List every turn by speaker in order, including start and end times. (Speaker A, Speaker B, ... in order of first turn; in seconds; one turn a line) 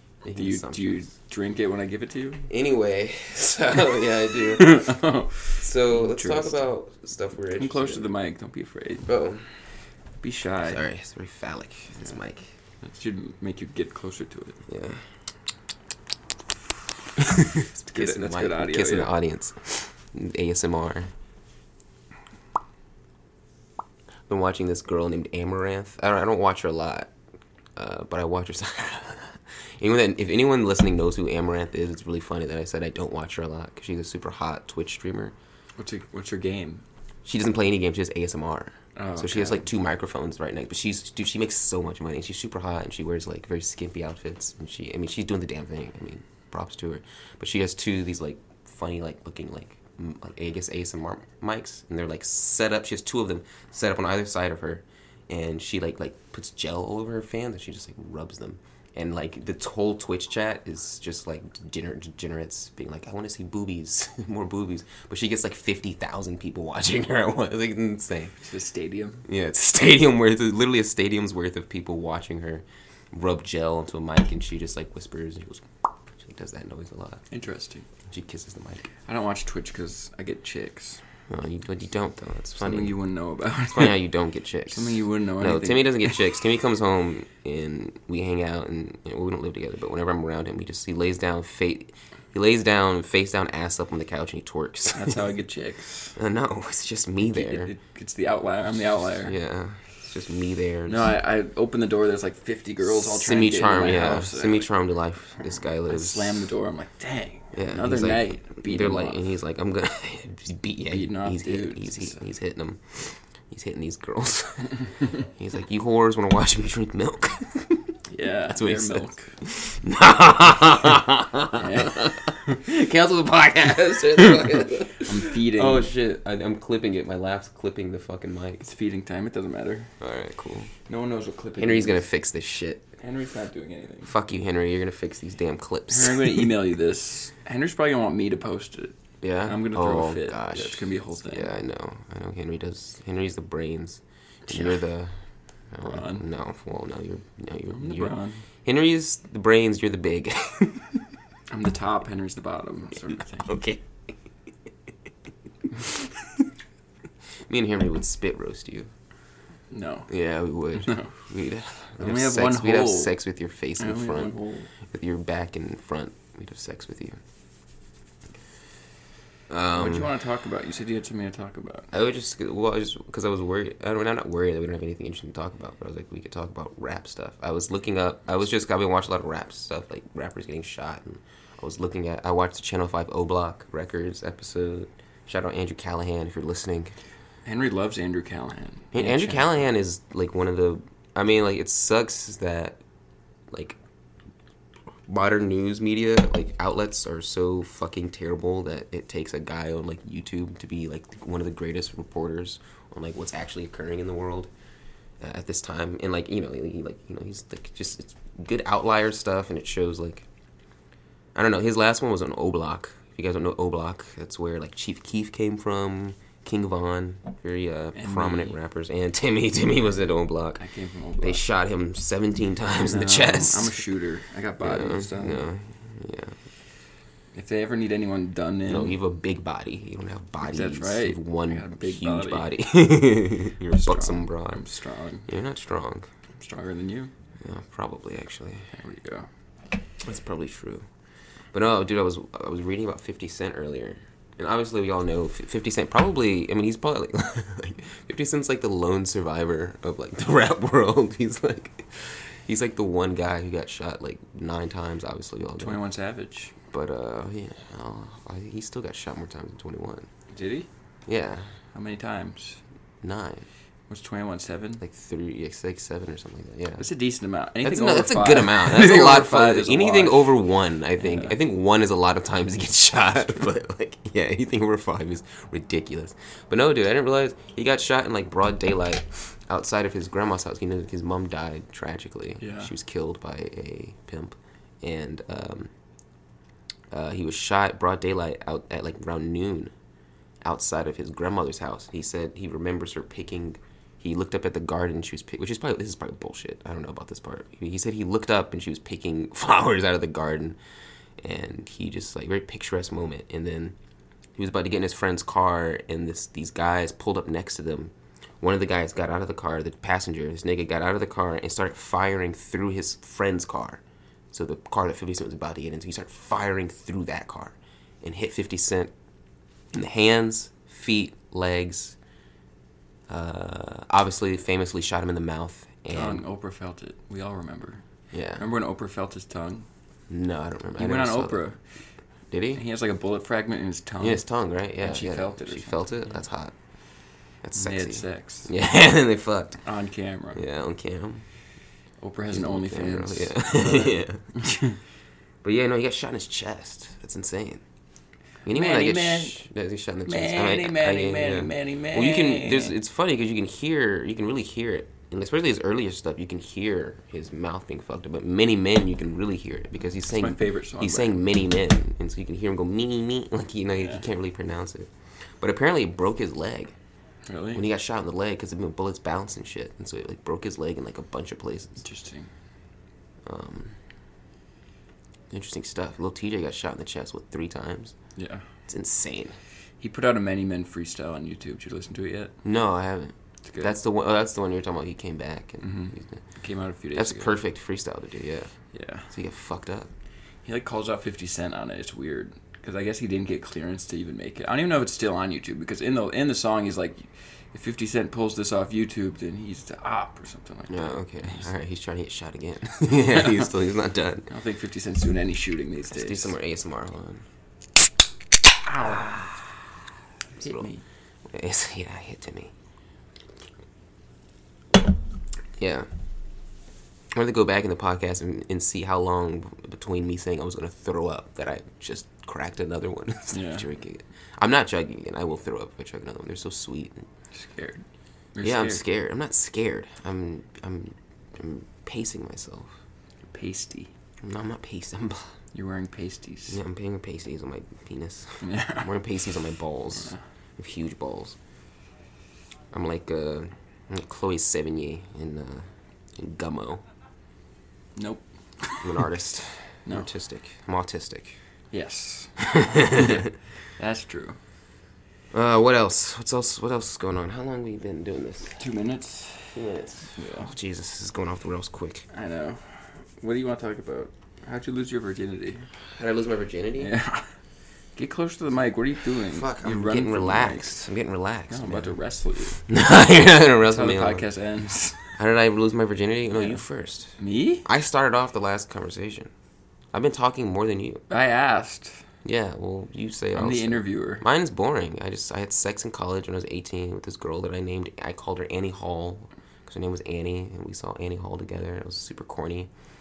Speaker A: 0.2-1.1
Speaker B: 0.3-2.5
Speaker A: 2.5-5.0
Speaker B: 4.5-6.6
Speaker A: 5.6-8.1
Speaker B: 7.5-9.1
Speaker A: 9.1-9.4
Speaker B: 10.2-10.8
Speaker A: 10.6-12.5
Speaker B: 12.8-14.6
Speaker A: 14.7-15.0
Speaker A: 17.2-21.1
Speaker B: 17.8-19.1
Speaker A: 24.3-27.1
Speaker A: 27.8-35.4
Speaker B: 35.8-36.8
Speaker A: 37.2-68.3
Speaker B: 39.0-39.6
Speaker B: 68.4-69.3
Speaker A: 69.3-75.7
Speaker A: 76.2-77.2
Speaker B: 77.3-77.9
Speaker A: 78.1-78.9
Speaker B: 79.1-81.0
Speaker A: 81.3-83.0
Speaker B: 82.6-84.0
Speaker A: 83.7-95.2
Speaker B: 84.7-86.3
Speaker B: 94.9-96.2
Speaker A: 96.2-97.7
Speaker B: 97.2-99.4
Speaker A: 99.2-101.1
Speaker B: 100.9-104.7
Speaker A: 102.8-106.5
Speaker B: 105.9-109.2
Speaker A: 107.5-117.9
Speaker B: 110.9-112.2
Speaker B: 118.1-119.3
Speaker A: 118.5-128.7
Speaker B: 121.6-122.6
Speaker B: 125.0-125.9
Speaker B: 128.6-129.9
Speaker A: 130.0-130.7
Speaker B: 130.9-132.0
Speaker A: 131.6-132.9
Speaker B: 133.0-134.1
Speaker A: 134.1-136.5
Speaker B: 135.9-141.5
Speaker A: 139.2-145.2
Speaker B: 144.5-144.8
Speaker A: 145.7-151.1
Speaker B: 145.8-146.2
Speaker B: 147.8-148.4
Speaker B: 151.5-153.6
Speaker A: 153.5-153.8
Speaker A: 155.8-156.5
Speaker A: 157.5-158.9
Speaker B: 159.7-160.1
Speaker A: 160.1-164.4
Speaker B: 160.8-161.1
Speaker B: 162.0-163.2
Speaker B: 163.8-164.7
Speaker A: 164.9-167.2
Speaker A: 169.5-170.1
Speaker B: 169.7-171.9
Speaker A: 171.9-186.9
Speaker B: 187.4-189.7
Speaker A: 188.9-192.8
Speaker A: 193.5-193.8
Speaker A: 195.1-204.5
Speaker A: 205.2-210.2
Speaker A: 211.3-220.6
Speaker B: 217.9-218.6
Speaker B: 220.6-221.4
Speaker A: 221.2-223.8
Speaker B: 222.8-225.5
Speaker A: 224.6-226.4
Speaker B: 227.3-229.0
Speaker A: 228.7-234.6
Speaker B: 230.4-232.5
Speaker B: 233.7-235.3
Speaker A: 235.3-236.1
Speaker B: 236.4-237.1
Speaker A: 237.4-238.7
Speaker B: 238.7-239.3
Speaker A: 240.0-240.8
Speaker A: 241.5-255.8
Speaker B: 255.6-256.5
Speaker A: 256.7-260.1
Speaker B: 260.3-260.7
Speaker A: 261.1-261.5
Speaker B: 261.7-262.6
Speaker A: 263.0-263.4
Speaker B: 263.9-264.8
Speaker A: 264.8-266.9
Speaker B: 266.8-270.4
Speaker A: 267.6-285.7
Speaker B: 271.0-271.4
Speaker B: 282.4-282.7
Speaker A: 286.9-289.7
Speaker A: 290.4-300.6
Speaker A: 301.2-303.8
Speaker A: 304.4-318.9
Speaker A: 319.7-322.0
Speaker A: 323.1-326.2
Speaker B: 325.9-327.8
Speaker A: 328.1-328.4
Speaker B: 328.4-329.7
Speaker A: 330.1-331.4
Speaker B: 330.8-331.6
Speaker A: 332.3-332.6
Speaker B: 332.5-334.2
Speaker A: 334.0-336.5
Speaker B: 334.8-336.2
Speaker A: 337.4-339.6
Speaker B: 337.6-338.5
Speaker B: 339.6-340.4
Speaker A: 340.4-341.2
Speaker B: 342.0-344.8
Speaker A: 342.3-344.2
Speaker A: 345.4-347.6
Speaker A: 348.5-366.8
Speaker B: 348.5-349.4
Speaker B: 350.1-352.8
Speaker B: 360.1-361.2
Speaker B: 367.3-367.6
Speaker A: 367.5-371.8
Speaker B: 371.8-372.3
Speaker A: 373.3-373.8
Speaker A: 375.3-377.9
Speaker B: 378.2-378.4
Speaker A: 378.7-379.4
Speaker B: 379.8-382.4
Speaker A: 382.4-386.2
Speaker B: 383.5-383.7
Speaker B: 385.6-387.4
Speaker A: 386.9-388.5
Speaker B: 388.7-389.1
Speaker A: 389.1-389.9
Speaker B: 390.4-401.5
Speaker A: 400.7-404.3
Speaker B: 403.0-403.5
Speaker B: 404.3-406.3
Speaker A: 405.9-407.2
Speaker B: 408.6-409.3
Speaker B: 410.4-410.8
Speaker A: 410.4-410.7
Speaker A: 411.3-412.5
Speaker A: 415.6-415.9
Speaker A: 417.1-427.1
Speaker B: 423.3-423.7
Speaker B: 427.4-427.8
Speaker B: 428.4-428.8
Speaker A: 428.4-432.8
Speaker B: 433.3-433.9
Speaker A: 434.2-435.3
Speaker B: 435.5-436.6
Speaker A: 436.5-441.4
Speaker B: 438.4-438.9
Speaker A: 442.7-446.8
Speaker B: 448.0-449.0
Speaker A: 448.8-451.4
Speaker B: 451.7-452.4
Speaker A: 452.4-453.3
Speaker B: 452.9-454.4
Speaker A: 455.3-458.6
Speaker B: 458.6-459.6
Speaker A: 459.6-462.1
Speaker B: 460.2-460.5
Speaker B: 462.1-465.7
Speaker A: 466.0-466.9
Speaker B: 466.8-467.3
Speaker B: 468.0-470.7
Speaker A: 469.3-471.9
Speaker B: 471.5-472.6
Speaker A: 472.7-474.3
Speaker B: 473.6-475.1
Speaker A: 475.2-477.1
Speaker B: 476.3-476.6
Speaker B: 477.2-477.7
Speaker A: 477.6-479.3
Speaker A: 479.9-481.0
Speaker B: 481.1-482.0
Speaker A: 482.2-492.7
Speaker B: 483.4-484.2